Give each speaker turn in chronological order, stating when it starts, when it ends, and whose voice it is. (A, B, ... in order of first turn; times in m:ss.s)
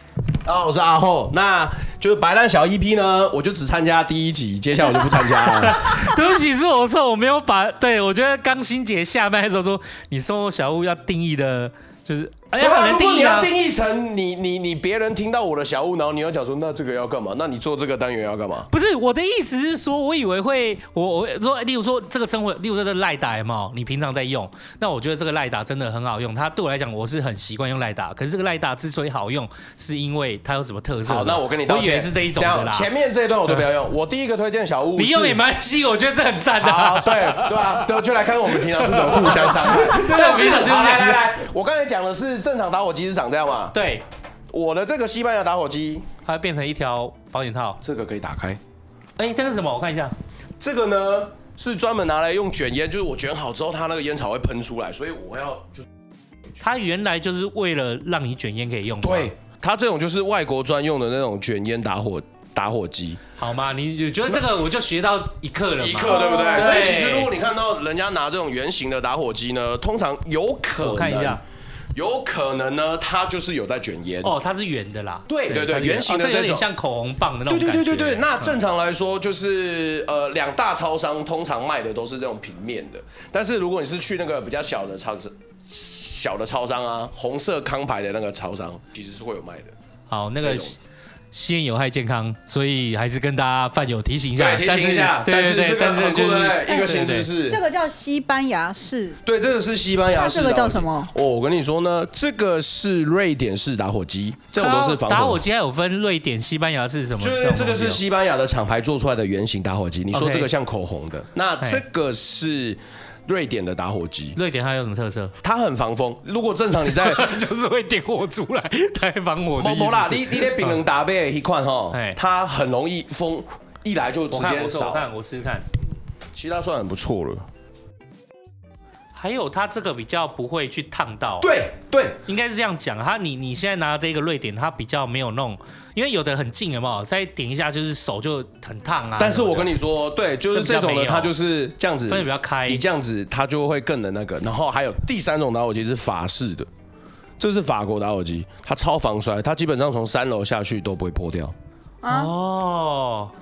0:00.4-0:06.1 A
0:05.1-0:13.5 B
0:12.6-0:18.7 A
0:18.7-0:32.9 B
0:31.0-0:35.4 A
0:35.0-0:37.9 B
0:36.6-0:43.8 A
0:38.6-0:41.3 B
0:43.7-0:44.0 B
0:44.5-0:46.0 A
0:46.2-0:47.8 B
0:47.8-0:48.6 A
0:49.2-0:50.1 B
0:50.6-0:55.9 A
0:56.6-0:59.3 B
0:59.0-1:03.2 A
1:03.4-1:07.3 B
1:05.8-1:11.4 A
1:06.1-1:06.9 C
1:10.8-1:11.4 B
1:11.9-1:14.3 A
1:14.2-1:18.5 B
1:15.3-1:16.6 A
1:17.5-1:29.7 A
1:30.1-1:30.8 B
1:30.4-1:30.8 A
1:31.3-1:37.3 B
1:34.4-1:37.6 A
1:37.4-1:39.2 C
1:39.2-1:45.4 A
1:40.1-1:41.1 C
1:44.6-1:48.0 B
1:47.2-1:54.4 A
1:50.1-1:50.5 B
1:54.4-1:55.3 B
1:55.4-1:57.4 A
1:56.9-2:00.8 B
1:59.6-2:05.1 A
2:01.9-2:02.2 B
2:04.3-2:05.7 B
2:06.3-2:07.4 A
2:09.1-2:11.5 B
2:11.4-2:12.2 A
2:12.2-2:19.7 B
2:19.2-2:26.7 A
2:20.5-2:21.3 B
2:22.1-2:22.8 B
2:27.4-2:31.5 A
2:32.0-2:32.3 C
2:32.1-2:33.3 B